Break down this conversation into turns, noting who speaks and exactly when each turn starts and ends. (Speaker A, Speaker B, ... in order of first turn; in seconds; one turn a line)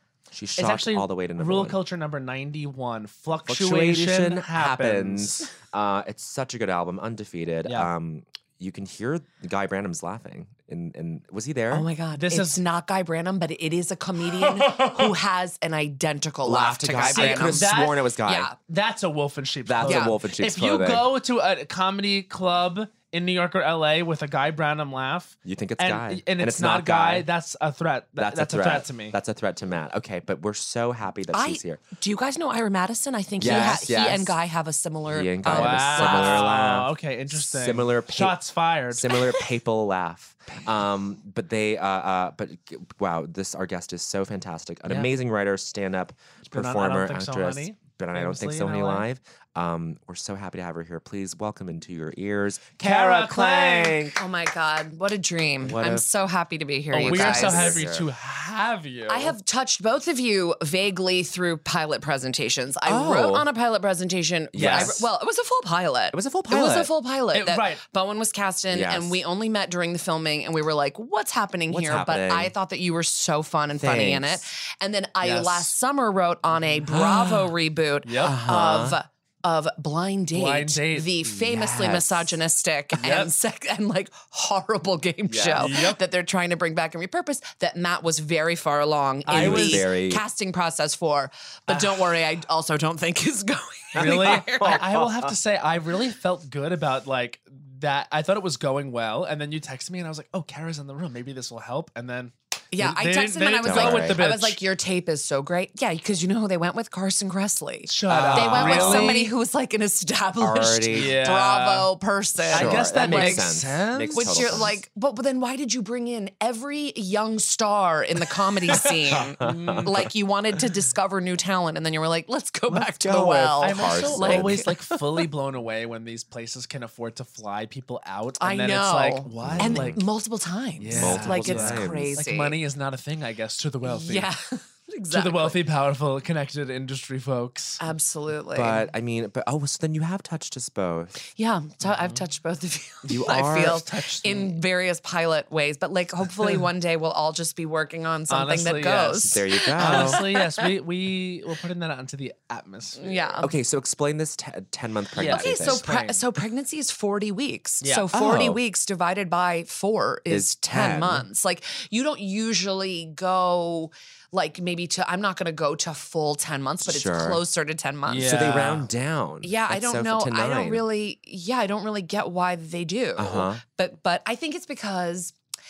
Speaker A: 0.3-1.8
Speaker B: 0.6-5.5
Speaker A: 3.5-11.9
Speaker C: 11.7-18.6
Speaker B: 12.1-12.6
Speaker B: 14.4-15.2
Speaker A: 16.4-18.5
Speaker B: 17.1-18.0
Speaker B: 18.7-29.2
Speaker A: 19.6-21.1
Speaker C: 19.9-20.2
Speaker A: 25.4-27.3
Speaker A: 28.2-31.8
Speaker C: 31.3-36.5
Speaker A: 33.4-34.4
Speaker B: 33.5-33.8
Speaker A: 35.1-38.4
Speaker B: 35.5-39.2
Speaker A: 38.9-54.1
Speaker B: 44.9-45.1
Speaker B: 46.5-49.0
Speaker B: 52.8-54.1
Speaker C: 54.1-57.8
Speaker A: 55.6-56.1
Speaker B: 56.9-59.3
Speaker A: 57.0-58.1
Speaker C: 59.1-94.8
Speaker A: 62.9-63.5
Speaker A: 64.5-65.1
Speaker B: 64.6-65.0
Speaker A: 66.1-66.9
Speaker B: 67.3-67.8
Speaker A: 68.7-69.2
Speaker A: 71.7-72.5
Speaker A: 73.7-74.4
Speaker B: 75.2-75.7
Speaker B: 76.6-77.0
Speaker A: 76.9-77.5
Speaker B: 78.0-78.4
Speaker A: 78.2-79.0
Speaker B: 80.3-81.1
Speaker A: 81.3-82.3
Speaker B: 83.0-83.3
Speaker A: 85.3-86.0
Speaker B: 85.5-86.0
Speaker B: 89.3-89.8
Speaker A: 89.3-90.2
Speaker B: 91.7-92.1
Speaker A: 94.0-95.3
Speaker B: 94.0-104.6
Speaker C: 102.7-113.5
Speaker A: 103.6-104.2
Speaker B: 107.9-109.3
Speaker A: 108.1-109.3
Speaker A: 110.4-111.3
Speaker B: 110.9-111.9
Speaker B: 112.5-114.6
Speaker A: 112.5-114.8
Speaker C: 114.1-124.8
Speaker B: 118.7-120.0
Speaker A: 119.1-120.1
Speaker A: 122.7-124.7
Speaker B: 123.6-130.0
Speaker C: 128.4-132.6
Speaker A: 129.4-130.0
Speaker B: 130.8-134.3
Speaker A: 130.9-132.2
Speaker C: 133.9-135.6
Speaker B: 135.1-137.8
Speaker C: 137.8-138.9
Speaker A: 138.5-141.2
Speaker C: 141.3-150.6
Speaker B: 141.8-142.2
Speaker A: 143.1-143.8
Speaker B: 143.4-144.6
Speaker B: 148.3-153.3
Speaker A: 149.2-150.2
Speaker C: 153.0-153.5
Speaker A: 153.4-155.8
Speaker B: 155.2-156.3
Speaker C: 155.2-168.5
Speaker B: 157.8-158.1
Speaker A: 158.1-158.6
Speaker A: 160.3-161.3
Speaker A: 166.8-167.4
Speaker B: 168.1-168.9
Speaker A: 168.2-170.8
Speaker C: 169.4-175.3
Speaker A: 173.2-173.6